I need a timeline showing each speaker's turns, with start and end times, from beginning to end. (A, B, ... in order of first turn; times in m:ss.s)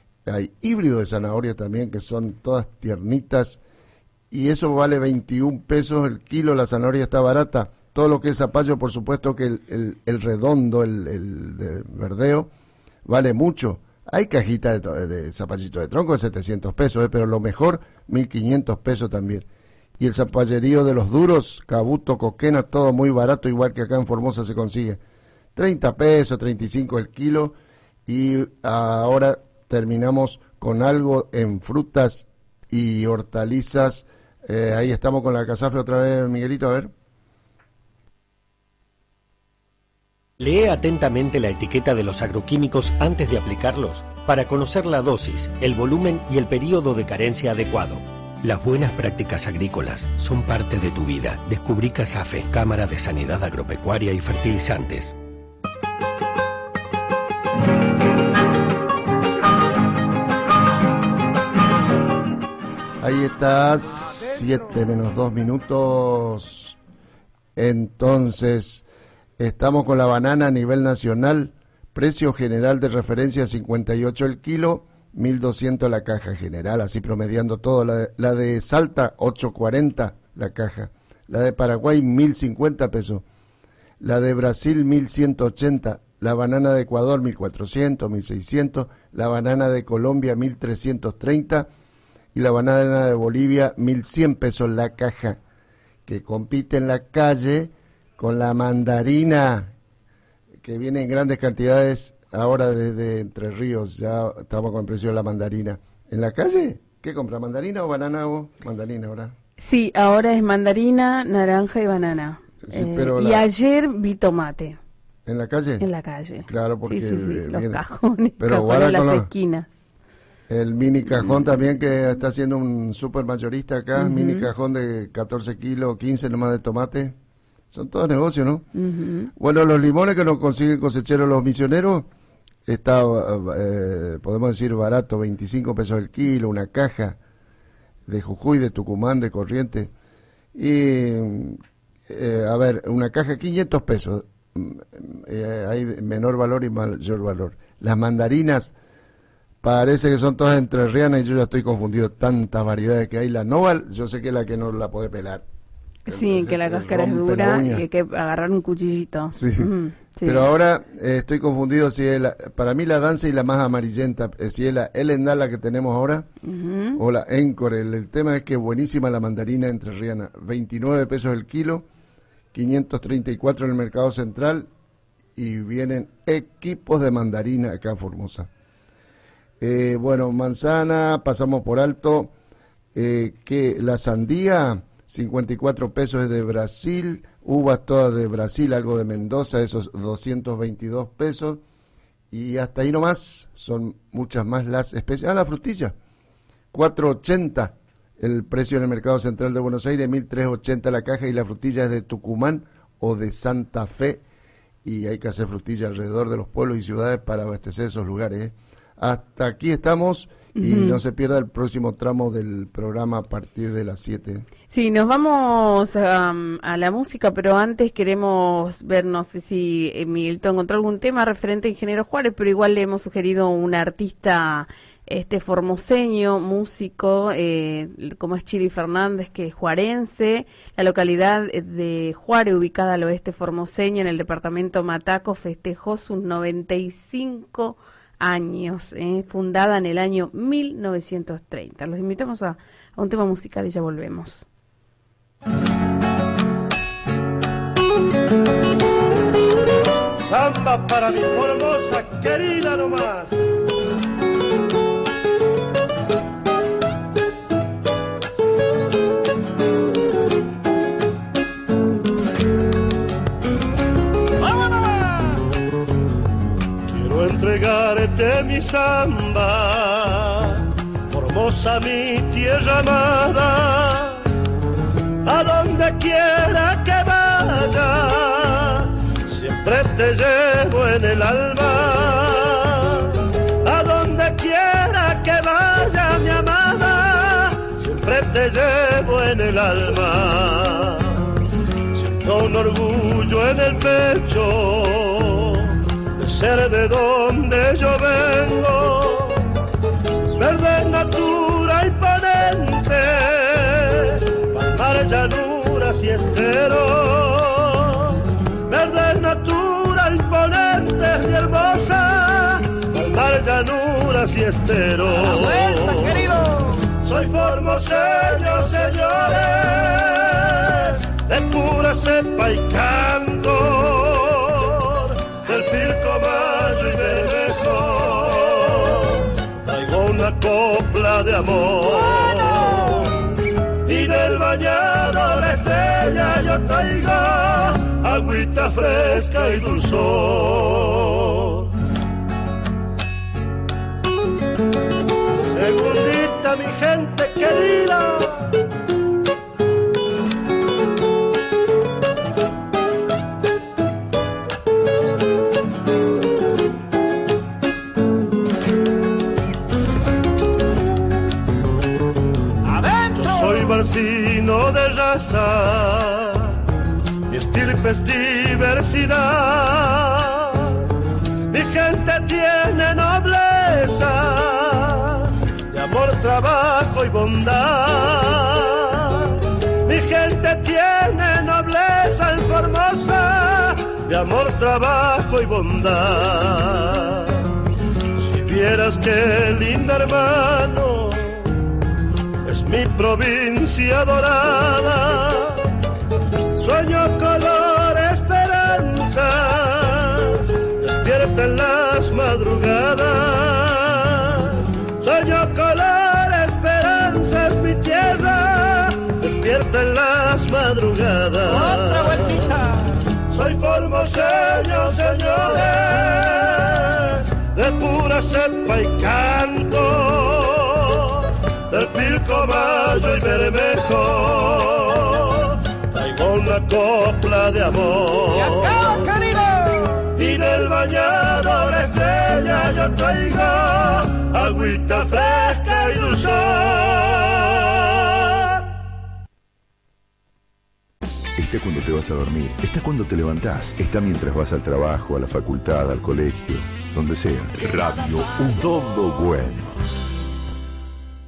0:00.3-0:03.6 A
0:04.3-0:12.5 A
0:13.1-0:19.5 A
0:20.0-0:25.0 A
0:25.6-0:27.6 A
0:28.1-0:36.9 A
0:40.4-0:55.2 B
1:03.0-1:06.8 A
1:07.6-1:08.8 A
1:09.4-1:23.2 A
1:24.0-1:31.7 A
1:32.3-1:35.4 A
1:36.1-1:39.7 A
1:40.6-1:49.4 A
1:49.6-1:54.8 C
1:52.6-1:53.5 A
1:55.3-1:55.9 A
1:55.8-1:59.8 C
1:56.5-1:57.8 A
1:58.4-1:59.3 A
2:00.5-2:07.2 A
2:04.0-2:04.5 C
2:07.7-2:08.7 A
2:08.8-2:09.3 C
2:09.4-2:12.1 A
2:12.7-2:17.2 A
2:18.1-2:19.9 A
2:20.6-2:28.7 A
2:29.6-2:35.4 A
2:36.1-2:40.5 C
2:36.1-2:37.8 A
2:39.3-2:46.3 A
2:46.4-2:47.0 C
2:47.0-2:51.9 A
2:52.5-2:54.7 A
2:55.4-2:58.5 A
2:59.6-3:02.3 A
3:02.9-3:11.6 A
3:12.3-3:16.0 A
3:16.7-3:24.2 A
3:24.8-3:34.5 A
3:30.6-3:31.0 C
3:34.7-4:04.4 C
4:10.2-4:13.5 D
4:26.9-4:34.2 D
4:35.3-4:51.2 D
4:51.9-4:59.4 D
5:00.4-5:16.2 D
5:17.0-5:33.2 D
5:33.8-5:41.7 D
5:45.3-5:48.5 D
6:03.1-6:06.6 D
6:07.3-6:10.8 D
6:11.5-6:27.4 D
6:28.2-6:31.4 D
6:32.5-6:35.6 D
6:36.6-6:52.6 D
6:53.3-7:09.0 D
7:10.2-7:18.4 D
7:21.4-7:29.7 E